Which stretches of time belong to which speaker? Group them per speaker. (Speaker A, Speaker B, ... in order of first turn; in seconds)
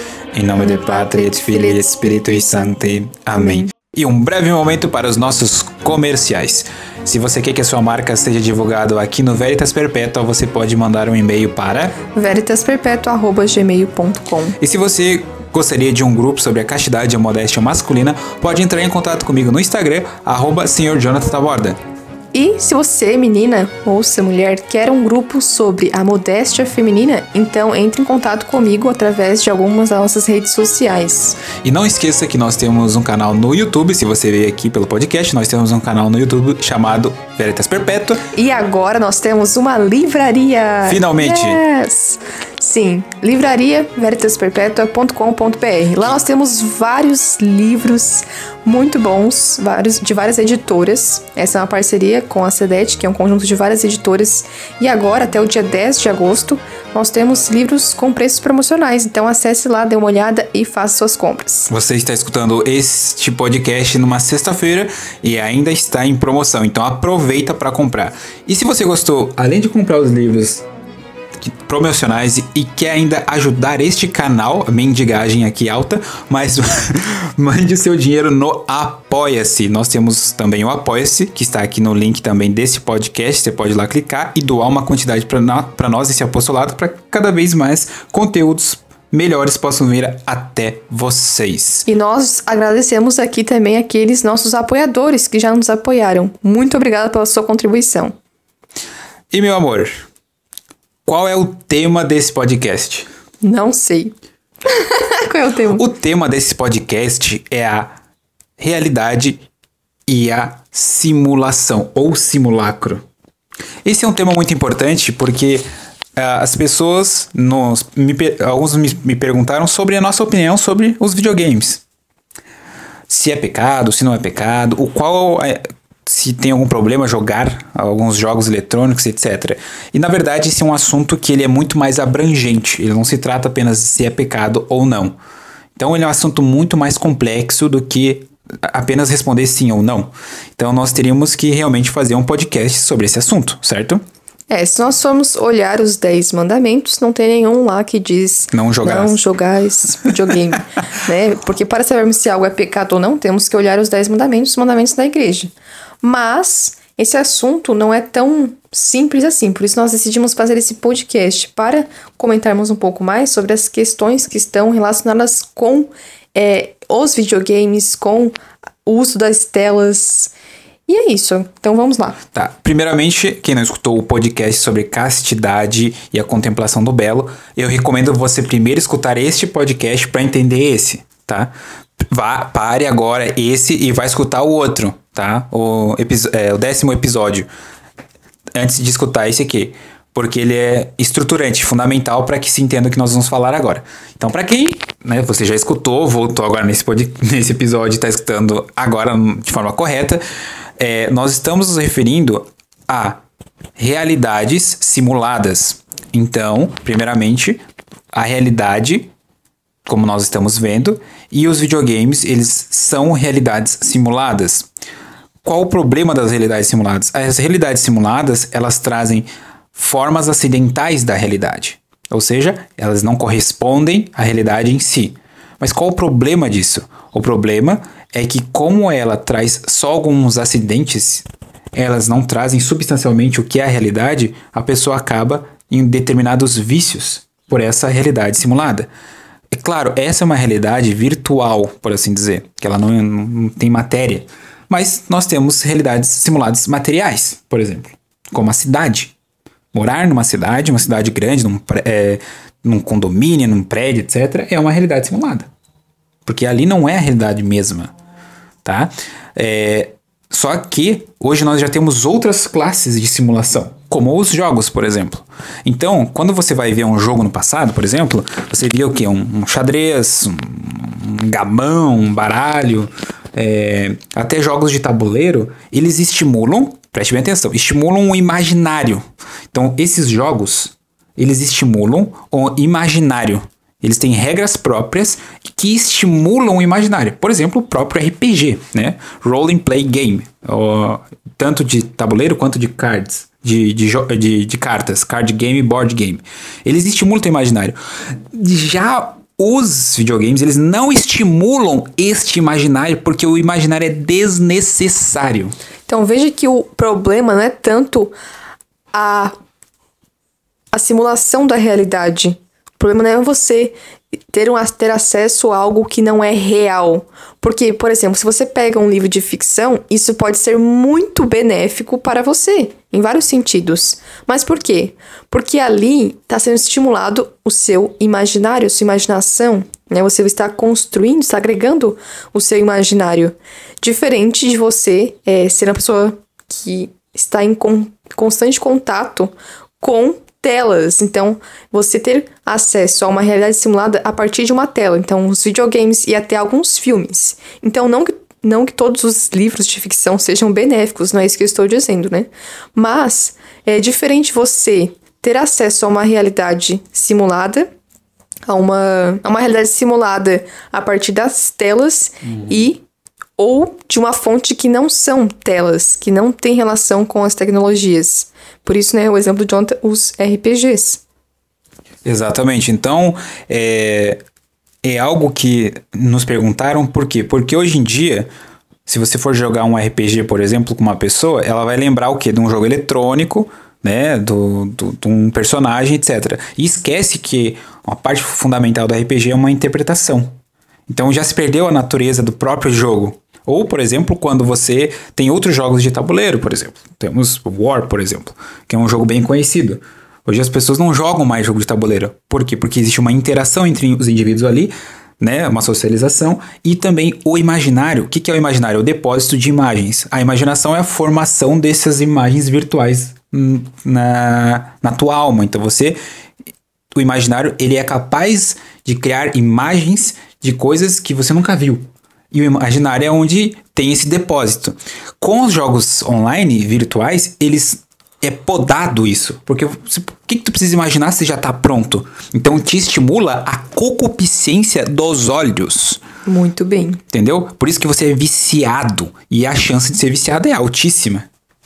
Speaker A: 0.3-12.0, 14.6-21.8, 31.6-38.2, 40.8-41.6, 61.7-70.7, 71.4-91.8, 99.3-99.9, 101.0-103.1, 105.7-107.9, 108.6-109.4, 110.1-113.0, 113.8-115.6, 116.2-121.8, 123.1-135.1, 135.8-144.0, 148.5-149.2, 172.3-181.5, 182.1-187.5, 188.5-200.2, 200.8-203.2, 203.8-207.6, 208.1-209.1, 209.8-214.7, 215.4-238.9, 239.5-249.1, 249.7-255.5, 256.2-257.9, 258.6-297.7, 298.3-305.5, 372.0-374.2, 374.8-378.3, 378.9-390.3, 390.9-416.0, 416.9-436.0, 437.1-441.3
Speaker B: 0.6-1.9, 3.4-3.6, 12.1-14.6, 22.3-31.4, 38.3-61.7, 91.8-98.2, 103.4-104.1, 104.7-105.8, 144.5-170.3, 170.9-172.2, 305.9-308.1, 308.9-309.3, 310.7-313.8, 314.3-357.7, 358.5-362.8, 363.4-371.0, 436.2-437.0